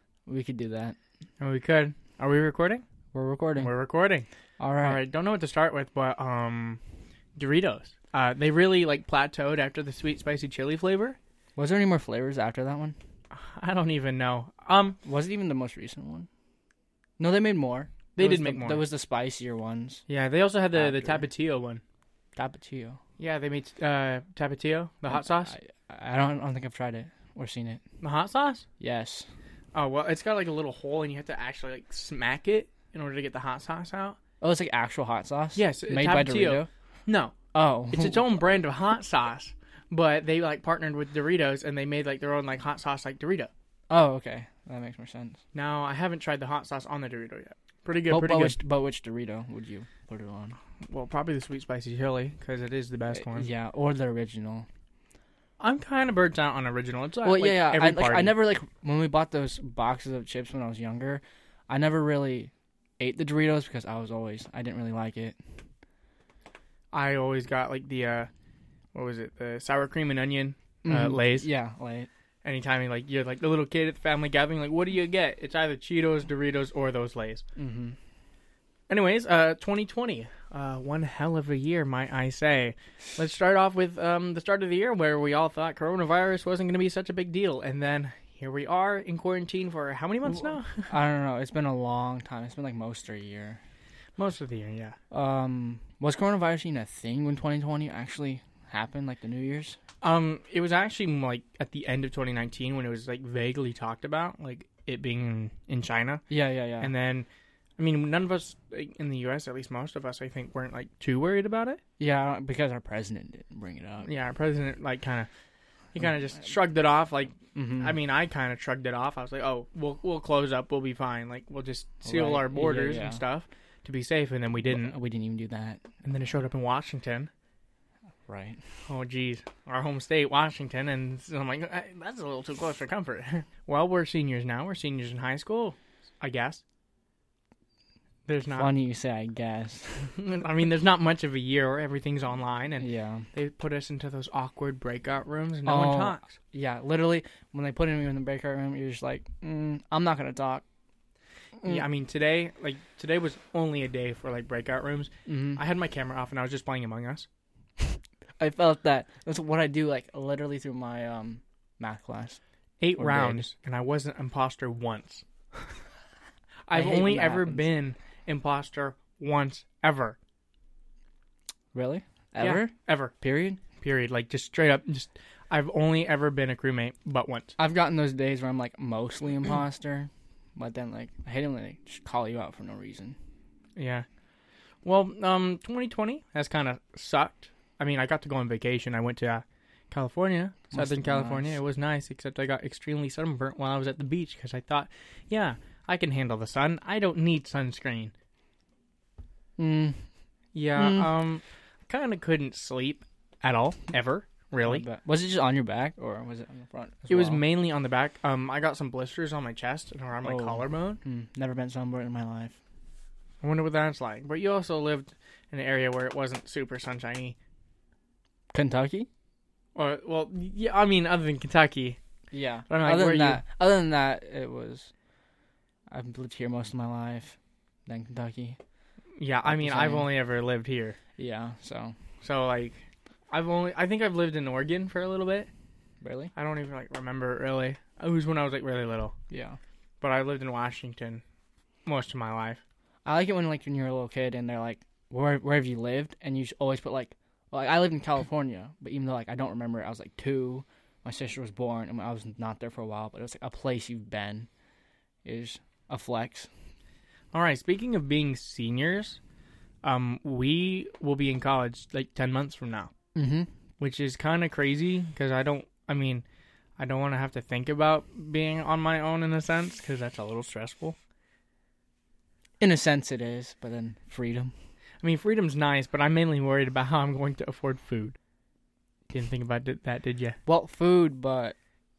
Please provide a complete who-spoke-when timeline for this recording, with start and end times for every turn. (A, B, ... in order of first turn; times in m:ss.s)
0:00.3-0:01.0 A
0:01.4-0:02.8 B
0:03.1-0:03.8 A
0:03.6-0:04.3 B
0:04.6-0:05.0 A
0:04.8-0:06.8 B
0:07.4-0:11.2 B
0:11.6-0:13.0 A
0:13.3-0:15.0 B
0:15.0-0:16.3 A
0:17.2-0:20.0 A
0:18.2-0:18.8 B
0:20.1-0:21.8 B
0:20.7-0:21.3 A
0:22.4-0:23.0 A
0:23.2-0:25.5 B
0:25.1-0:27.8 A
0:28.0-0:28.6 B
0:28.8-0:29.3 A
0:29.7-0:34.2 B
0:34.4-0:36.7 A
0:35.6-0:37.4 B
0:37.5-0:38.3 A
0:37.9-0:43.5 B
0:43.9-0:45.4 A
0:45.5-0:48.6 B
0:48.1-0:50.6 A
0:50.9-0:53.5 B
0:53.1-0:54.6 A
0:55.6-0:58.3 B
0:57.2-1:05.4 A
1:06.9-1:08.3 B
1:08.9-1:11.5 B
1:10.8-1:12.1 A
1:12.4-1:17.4 B
1:17.6-1:18.0 A
1:18.9-1:30.9 B
1:30.9-1:33.6 A
1:34.2-1:35.0 B
1:35.1-1:39.8 A
1:40.0-1:46.2 B
1:46.3-1:46.9 A
1:46.8-1:47.3 B
1:47.8-1:51.8 B
1:52.0-1:54.1 A
1:54.0-1:55.3 B
1:55.9-2:04.9 B
1:57.5-1:58.0 A
2:02.0-2:03.2 A
2:04.6-2:05.9 A
2:06.0-2:07.3 B
2:08.3-2:08.6 A
2:08.9-2:16.6 B
2:18.2-2:18.7 B
2:18.6-2:20.1 A
2:20.2-2:26.4 B
2:22.8-2:23.3 A
2:25.6-2:30.6 A
2:31.6-2:31.9 A
2:31.6-2:37.3 B
2:35.2-2:35.6 A
2:38.4-2:42.4 A
2:42.8-2:45.2 B
2:43.0-2:43.5 A
2:46.6-2:50.2 B
2:46.7-2:47.7 A
2:51.7-2:53.6 A
2:52.4-2:53.1 B
2:53.8-2:57.6 B
2:57.6-3:03.2 A
3:03.8-3:04.0 B
3:04.8-3:18.1 B
3:10.7-3:11.6 A
3:19.6-3:20.1 A
3:20.5-3:24.8 B
3:20.7-3:21.1 A
3:24.6-3:27.4 A
3:27.1-3:31.0 B
3:30.2-3:32.6 A
3:33.4-3:37.4 B
3:38.5-3:39.1 A
3:39.7-3:42.0 B
3:42.3-3:44.9 A
3:42.7-3:43.4 B
3:45.9-3:48.6 A
3:49.2-3:51.0 B
3:49.4-3:50.1 A
3:51.2-3:51.9 A
3:52.2-3:55.5 B
3:56.0-3:56.3 A
3:56.3-3:59.1 B
3:59.3-3:59.6 A
4:00.0-4:01.2 B
4:01.8-4:02.6 B
4:03.0-4:14.5 A
4:15.2-4:16.5 A
4:17.3-4:19.2 B
4:19.8-4:22.9 B
4:23.1-4:23.5 A
4:23.8-4:26.2 B
4:26.8-4:31.0 B
4:32.6-4:34.5 A
4:35.0-4:38.2 B
4:39.1-4:40.4 B
4:40.4-4:41.6 A